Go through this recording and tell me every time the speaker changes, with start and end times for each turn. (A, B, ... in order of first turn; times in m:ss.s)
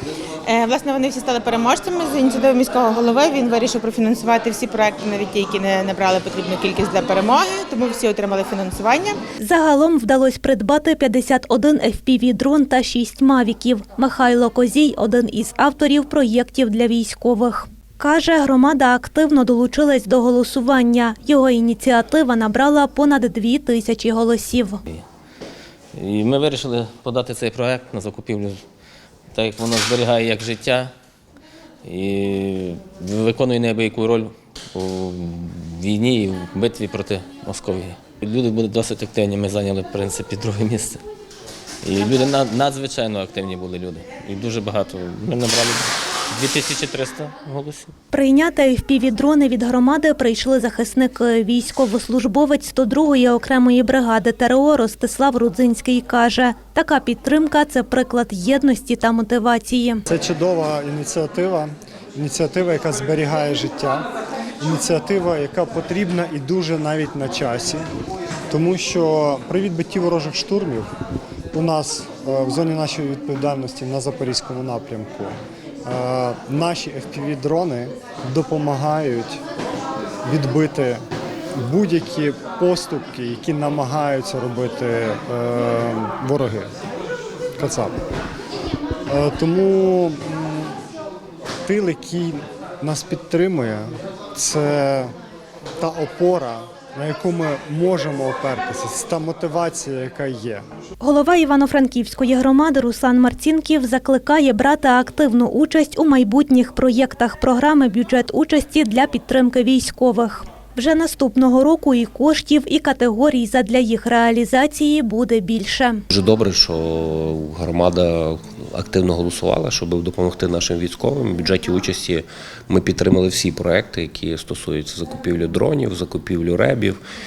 0:00.4-0:09.2 A
0:09.4-0:24.8 B
0:25.9-0:28.6 C
0:29.3-0:30.9 C
0:31.8-0:41.0 C
0:41.8-0:47.9 C
0:48.1-1:00.0 B
1:00.1-1:04.1 D
1:04.6-1:07.8 D
1:08.5-1:10.9 D
1:11.5-1:15.3 D
1:15.8-1:19.4 D
1:20.2-1:21.0 D
1:21.6-1:26.7 D
1:27.6-1:28.0 D
1:29.1-1:30.8 D
1:31.6-1:35.1 D
1:35.8-1:40.6 D
1:41.0-1:56.0 B
1:56.1-2:07.0 E